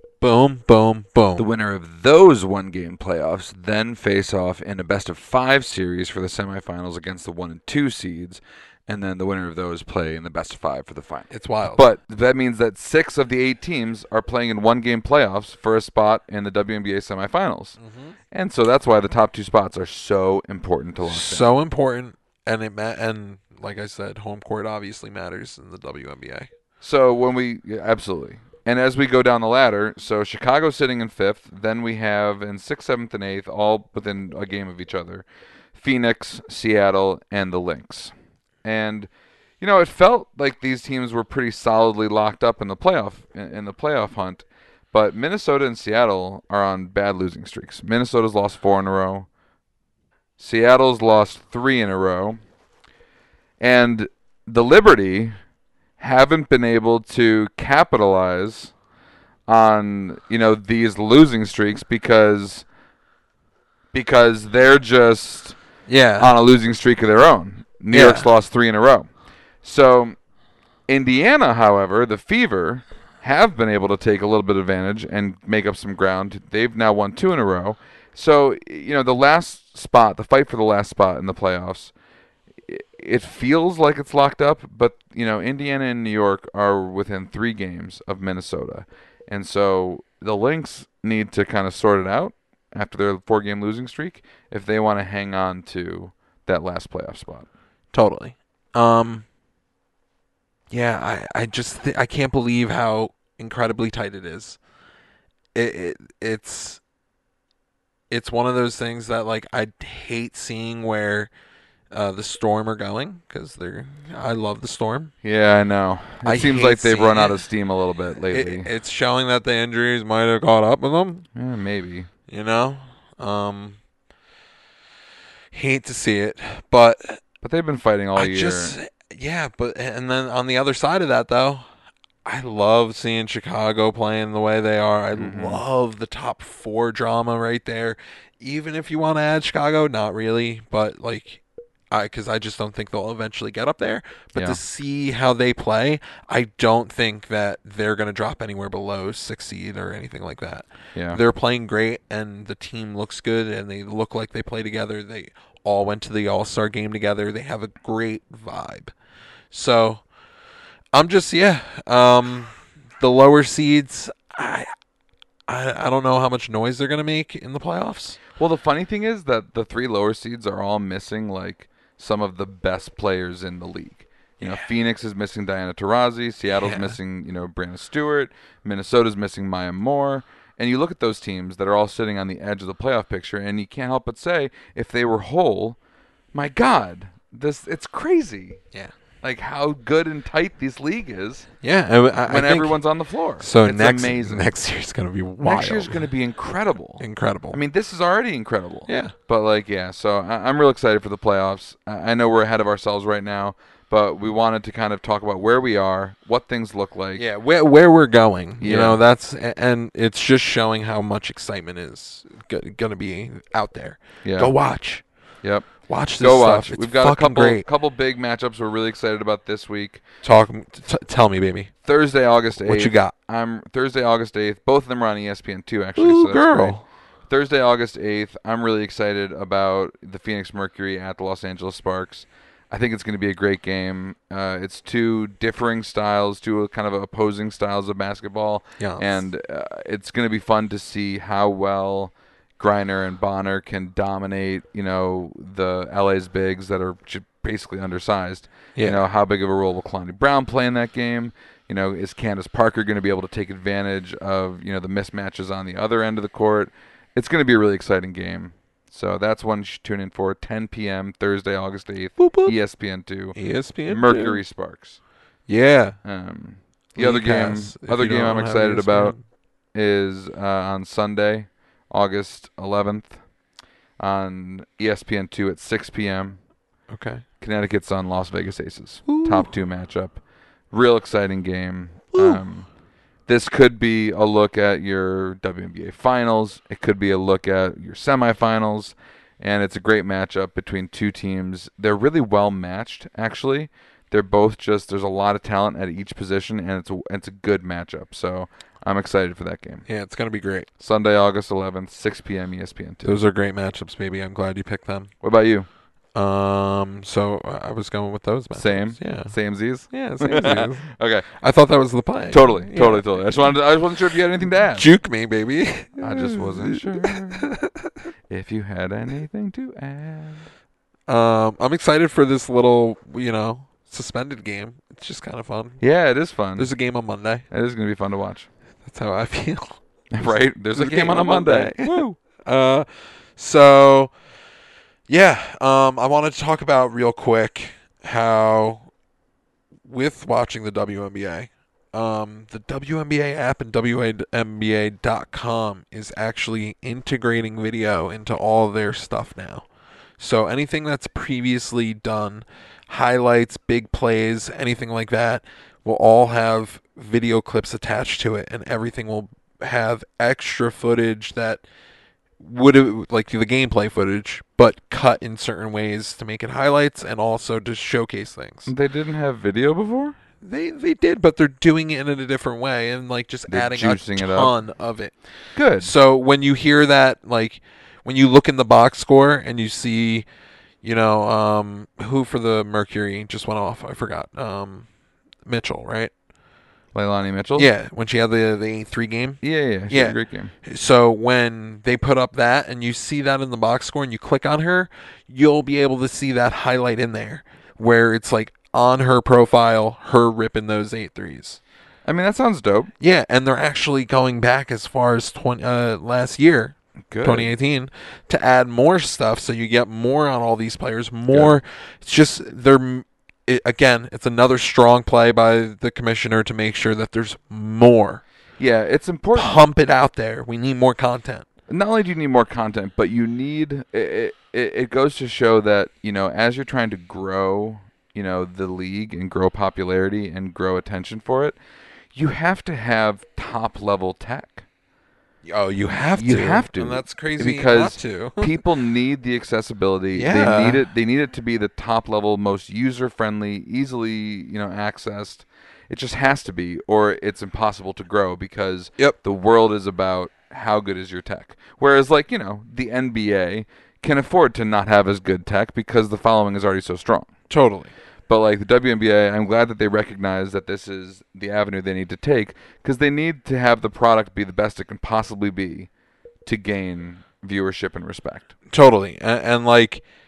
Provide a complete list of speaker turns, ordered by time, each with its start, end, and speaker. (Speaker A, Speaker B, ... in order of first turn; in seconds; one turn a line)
Speaker A: 0.2-1.5
Speaker B: 1.4-17.8
Speaker A: 11.3-11.8
Speaker A: 17.8-18.2
Speaker B: 18.3-21.5
Speaker A: 21.1-26.5
Speaker B: 26.8-35.2
Speaker B: 35.8-49.3
Speaker B: 50.4-52.4
Speaker B: 53.6-55.4
Speaker B: 56.0-58.7
Speaker B: 59.5-62.7
Speaker B: 63.9-65.6
Speaker A: 65.9-66.3
Speaker B: 66.2-69.1
Speaker A: 67.9-68.3
Speaker B: 69.6-70.2
Speaker B: 70.9-81.9
Speaker B: 82.6-97.5
Speaker A: 97.9-99.2
Speaker A: 100.7-104.6
Speaker A: 105.5-106.8
Speaker A: 108.1-111.3
Speaker A: 111.9-115.1
Speaker B: 115.2-118.7
Speaker A: 116.2-117.4
Speaker A: 118.3-121.3
Speaker B: 121.3-122.1
Speaker A: 122.3-123.8
Speaker A: 125.5-127.2
Speaker B: 127.4-128.8
Speaker A: 128.1-131.7
Speaker A: 132.2-158.9
Speaker B: 135.2-135.6
Speaker B: 144.3-144.6
Speaker B: 150.9-151.2
Speaker A: 159.5-160.0
Speaker A: 160.9-164.7
Speaker A: 165.5-168.2
Speaker B: 168.4-185.8
Speaker A: 174.4-174.7
Speaker A: 176.6-177.0
Speaker B: 186.3-188.6
Speaker B: 189.2-191.5
Speaker A: 191.6-192.8
Speaker B: 192.3-194.5
Speaker A: 193.4-196.1
Speaker B: 195.4-207.2
Speaker A: 197.0-197.6
Speaker A: 198.9-199.1
Speaker A: 207.2-215.0
Speaker B: 208.6-209.0
Speaker B: 214.2-214.6
Speaker B: 215.4-220.0
Speaker A: 215.9-217.7
Speaker A: 220.2-221.7
Speaker B: 221.8-265.0
Speaker A: 222.7-223.1
Speaker A: 226.0-226.8
Speaker A: 238.8-239.1
Speaker A: 248.8-249.0
Speaker A: 262.2-262.6
Speaker A: 263.4-264.4
Speaker A: 265.5-266.0
Speaker B: 266.0-269.2
Speaker A: 266.9-269.2
Speaker B: 269.7-273.2
Speaker B: 274.0-276.4
Speaker A: 276.9-277.2
Speaker B: 277.4-282.7
Speaker A: 279.1-279.5
Speaker A: 282.1-282.4
Speaker B: 283.3-299.9
Speaker A: 299.9-300.7
Speaker B: 300.8-303.2
Speaker A: 303.0-305.1
Speaker B: 305.2-305.7
Speaker A: 306.1-309.3
Speaker B: 308.5-311.3
Speaker A: 309.9-313.6
Speaker B: 312.3-314.9
Speaker A: 314.6-317.9
Speaker B: 316.0-317.5
Speaker B: 318.3-320.5
Speaker A: 321.1-325.8
Speaker B: 325.8-326.7
Speaker A: 326.6-327.5
Speaker B: 327.5-328.5
Speaker A: 328.9-334.1
Speaker B: 330.1-332.2
Speaker A: 335.1-338.9
Speaker A: 339.9-349.7
Speaker A: 350.2-361.6
Speaker A: 362.4-368.7
Speaker B: 368.7-370.2
Speaker A: 370.4-375.2
Speaker B: 373.5-374.5
Speaker B: 375.6-375.9
Speaker A: 375.8-380.2
Speaker A: 380.8-384.9
Speaker A: 385.5-386.1
Speaker B: 386.9-387.7
Speaker A: 387.6-401.6
Speaker B: 389.4-390.5
Speaker B: 402.1-402.9
Speaker A: 403.0-418.2
Speaker B: 407.1-407.5
Speaker B: 411.3-411.6
Speaker B: 418.6-419.6
Speaker A: 419.4-421.5
Speaker B: 421.7-431.6
Speaker B: 432.1-434.6
Speaker A: 435.4-438.6
Speaker B: 436.1-457.3
Speaker A: 440.1-440.9
Speaker A: 457.5-457.9
Speaker B: 458.3-465.9
Speaker B: 466.4-468.5
Speaker A: 468.7-470.0